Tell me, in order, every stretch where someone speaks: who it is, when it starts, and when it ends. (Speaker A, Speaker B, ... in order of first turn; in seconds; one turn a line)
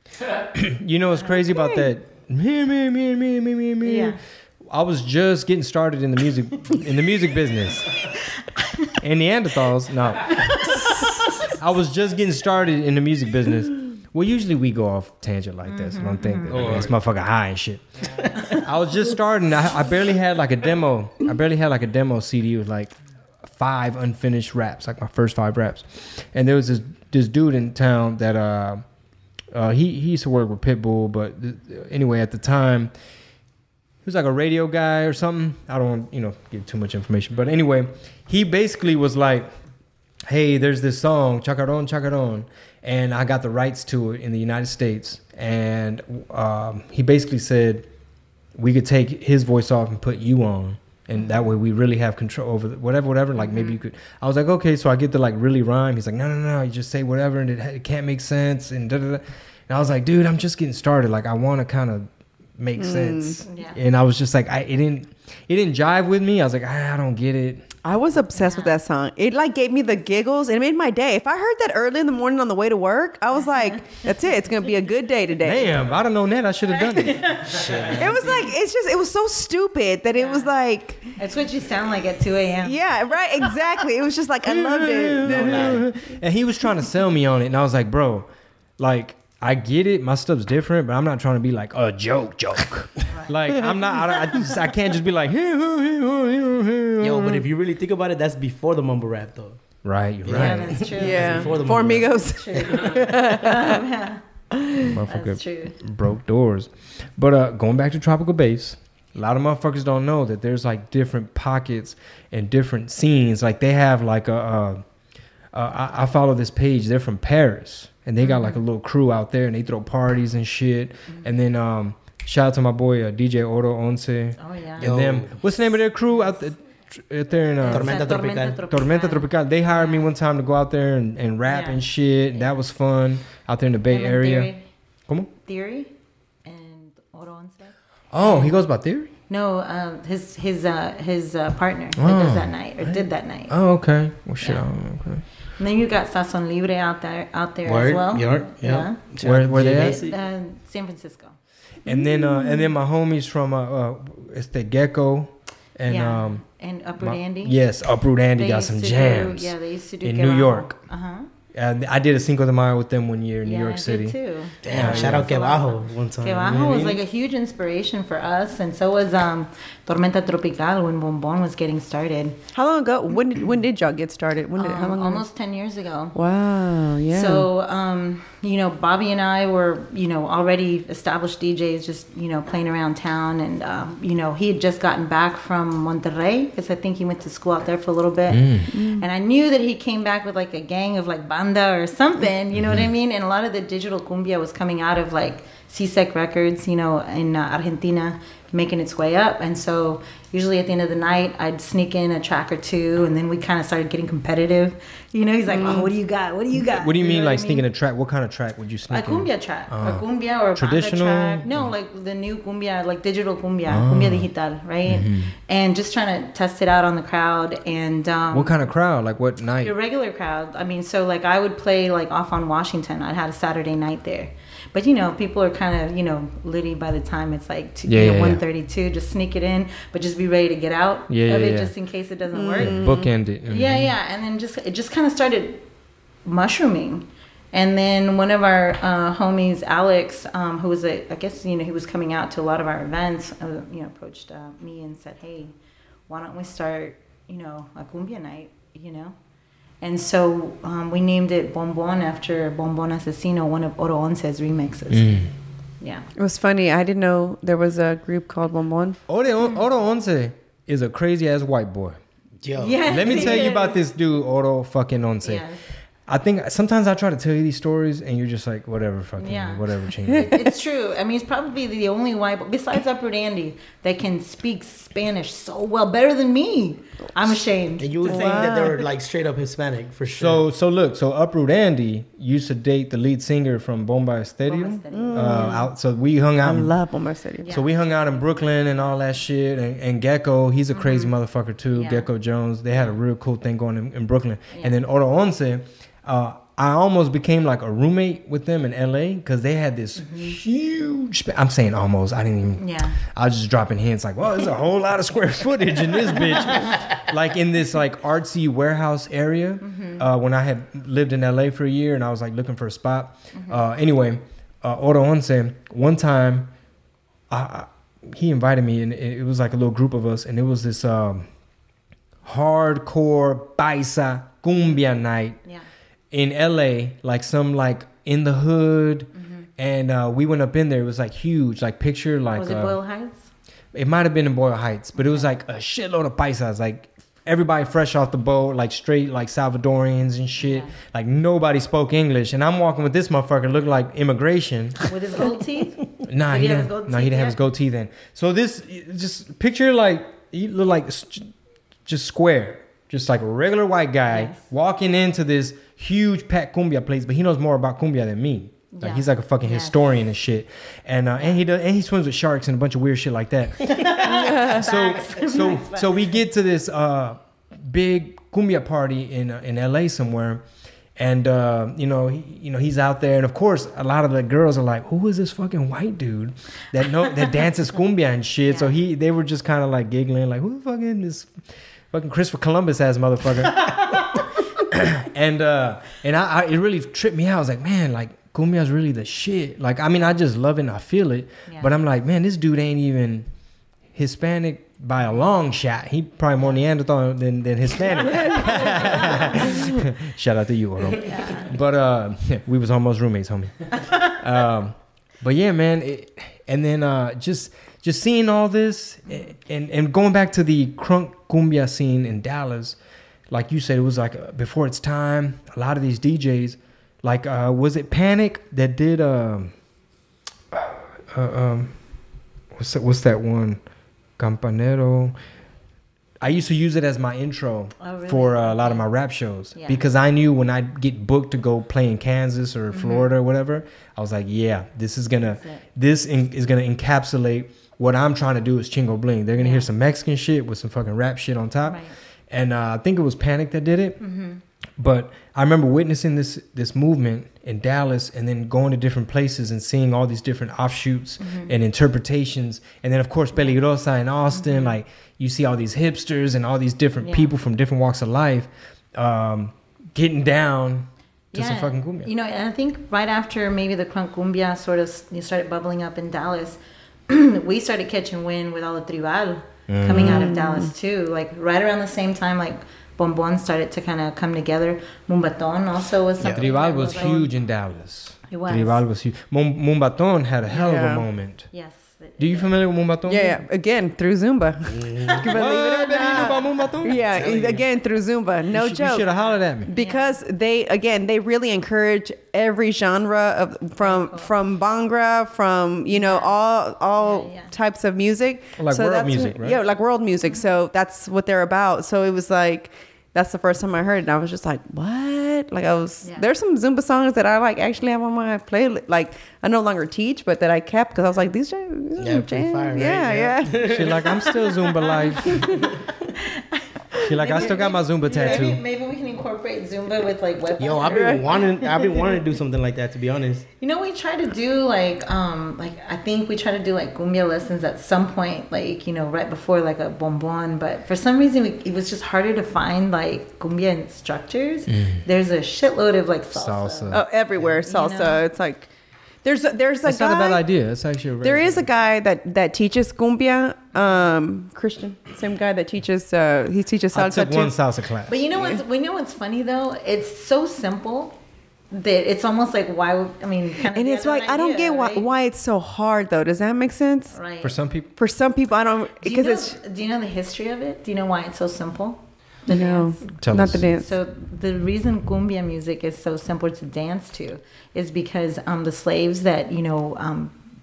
Speaker A: 0.5-8.1
Speaker B: 3.8-4.2
Speaker A: 9.0-10.8
Speaker B: 10.4-11.1
Speaker A: 11.5-28.8
Speaker B: 15.7-16.6
Speaker C: 16.5-17.0
Speaker C: 18.3-18.6
Speaker A: 29.5-32.9
Speaker A: 34.0-39.5
Speaker A: 40.2-47.9
Speaker A: 48.5-67.7
Speaker B: 53.4-53.8
Speaker D: 62.8-63.4
Speaker B: 63.5-63.8
Speaker D: 67.8-75.8
Speaker B: 68.3-68.8
Speaker A: 75.4-77.5
Speaker B: 76.9-77.6
Speaker C: 77.4-78.5
Speaker D: 77.9-81.1
Speaker B: 80.2-80.5
Speaker B: 81.2-82.8
Speaker D: 82.6-85.9
Speaker A: 84.5-97.5
Speaker C: 85.2-85.9
Speaker B: 93.1-93.4
Speaker D: 94.1-94.3
Speaker C: 97.0-99.6
Speaker A: 99.8-100.9
Speaker C: 100.3-103.0
Speaker B: 100.3-104.2
Speaker D: 101.0-103.8
Speaker D: 104.6-104.9
Speaker A: 104.8-114.8
Speaker B: 105.1-105.8
Speaker A: 115.5-128.1
Speaker B: 118.2-118.6
Speaker B: 124.4-124.9
Speaker C: 124.8-125.4
Speaker B: 127.6-130.1
Speaker C: 127.7-128.6
Speaker A: 128.7-134.5
Speaker B: 131.5-132.5
Speaker B: 133.9-134.6
Speaker B: 135.4-135.9
Speaker B: 136.4-138.6
Speaker A: 138.1-139.1
Speaker B: 139.3-143.5
Speaker A: 142.0-145.2
Speaker B: 145.6-149.0
Speaker C: 147.7-150.2
Speaker A: 149.2-150.0
Speaker B: 149.6-151.3
Speaker A: 151.9-156.4
Speaker D: 151.9-152.7
Speaker B: 155.9-157.6
Speaker A: 157.0-160.8
Speaker B: 158.3-161.3
Speaker A: 161.5-165.3
Speaker B: 163.4-172.4
Speaker C: 164.6-167.0
Speaker D: 172.5-175.3
Speaker B: 174.6-176.2
Speaker D: 176.2-177.5
Speaker B: 177.1-207.7
Speaker A: 188.3-188.7
Speaker D: 188.7-189.1
Speaker A: 192.5-192.9
Speaker D: 205.5-205.9
Speaker A: 206.5-211.7
Speaker B: 208.9-218.6
Speaker A: 213.7-214.3
Speaker A: 214.9-215.3
Speaker A: 218.3-219.8
Speaker B: 219.6-232.8
Speaker A: 227.9-228.4
Speaker A: 231.1-231.7
Speaker D: 232.3-233.1
Speaker A: 232.6-233.9
Speaker B: 233.5-235.6
Speaker B: 236.2-245.5
Speaker B: 246.1-249.2
Speaker B: 249.8-255.3
Speaker A: 254.9-255.3
Speaker B: 255.8-256.1
Speaker D: 256.2-259.0
Speaker A: 259.1-262.0
Speaker C: 262.4-263.4
Speaker B: 262.6-263.8
Speaker A: 262.9-265.5
Speaker B: 265.2-265.6
Speaker A: 266.1-270.5
Speaker B: 269.2-278.7
Speaker C: 277.8-280.4
Speaker D: 278.1-278.9
Speaker A: 280.2-286.8
Speaker B: 284.4-285.7
Speaker D: 284.9-285.7
Speaker D: 286.4-287.5
Speaker B: 287.4-287.7
Speaker A: 287.5-316.5
Speaker B: 290.7-291.1
Speaker B: 291.7-292.1
Speaker B: 292.7-293.0
Speaker B: 294.5-294.8
Speaker B: 300.0-300.4
Speaker B: 302.6-303.0
Speaker B: 306.6-306.9
Speaker B: 309.6-310.0
Speaker B: 313.3-313.6
Speaker A: 317.3-321.3
Speaker A: 322.2-325.4
Speaker A: 326.1-332.8
Speaker B: 329.1-329.5
Speaker B: 332.4-333.3
Speaker A: 333.7-344.9
Speaker B: 335.0-335.3
Speaker B: 340.4-340.7
Speaker B: 344.9-347.4
Speaker A: 346.1-351.3
Speaker A: 351.9-370.4
Speaker B: 354.1-354.4
Speaker B: 358.7-359.8
Speaker B: 361.2-361.4
Speaker B: 363.7-366.1
Speaker D: 364.2-364.6
Speaker A: 371.0-381.3
Speaker B: 378.5-378.8
Speaker A: 381.9-384.0
Speaker A: 384.6-393.3
Speaker B: 391.5-391.7
Speaker A: 393.9-412.8
Speaker B: 398.3-399.5
Speaker B: 401.0-401.5
Speaker B: 403.9-404.1
Speaker A: 413.3-419.5
Speaker A: 420.5-421.8
Speaker A: 422.5-423.6
Speaker A: 424.2-425.2
Speaker A: 426.2-444.0
Speaker B: 427.8-428.9
Speaker B: 429.6-429.8
Speaker B: 432.7-433.1
Speaker B: 435.3-435.6
Speaker B: 439.4-439.7
Speaker B: 441.6-441.9
Speaker B: 444.0-444.4
Speaker A: 444.8-462.1
Speaker B: 451.2-451.6
Speaker B: 454.3-454.8
Speaker B: 457.0-457.3
Speaker B: 461.3-477.3
Speaker A: 469.7-470.3
Speaker D: 469.9-470.7
Speaker C: 476.2-476.5
Speaker A: 476.2-481.5
Speaker B: 478.3-478.8
Speaker D: 480.5-481.1
Speaker B: 481.5-482.6
Speaker A: 482.2-483.4
Speaker D: 483.1-489.1
Speaker C: 484.7-485.3
Speaker A: 485.3-487.0
Speaker B: 485.8-486.7
Speaker C: 487.1-487.6
Speaker A: 488.5-489.7
Speaker B: 489.2-490.2
Speaker D: 489.6-513.9
Speaker B: 493.8-494.3
Speaker B: 495.9-496.3
Speaker B: 497.0-497.5
Speaker A: 498.6-499.6
Speaker B: 506.0-506.3
Speaker C: 512.0-514.0
Speaker A: 513.6-515.6
Speaker B: 514.7-515.6
Speaker B: 516.2-522.2
Speaker A: 517.0-518.6
Speaker C: 520.6-523.5
Speaker D: 520.9-521.3
Speaker B: 523.6-537.0
Speaker A: 534.7-535.0
Speaker A: 536.3-537.0
Speaker D: 536.9-538.7
Speaker B: 537.6-538.2
Speaker D: 539.2-540.4
Speaker A: 539.8-541.7
Speaker D: 541.2-547.6
Speaker B: 543.8-544.1
Speaker A: 546.9-548.5
Speaker B: 548.1-551.2
Speaker B: 551.7-555.1
Speaker D: 553.6-557.2
Speaker B: 557.1-557.6
Speaker A: 557.4-557.9
Speaker D: 558.0-559.6
Speaker B: 559.0-563.0
Speaker D: 562.5-563.9
Speaker A: 563.2-563.7
Speaker B: 563.6-570.4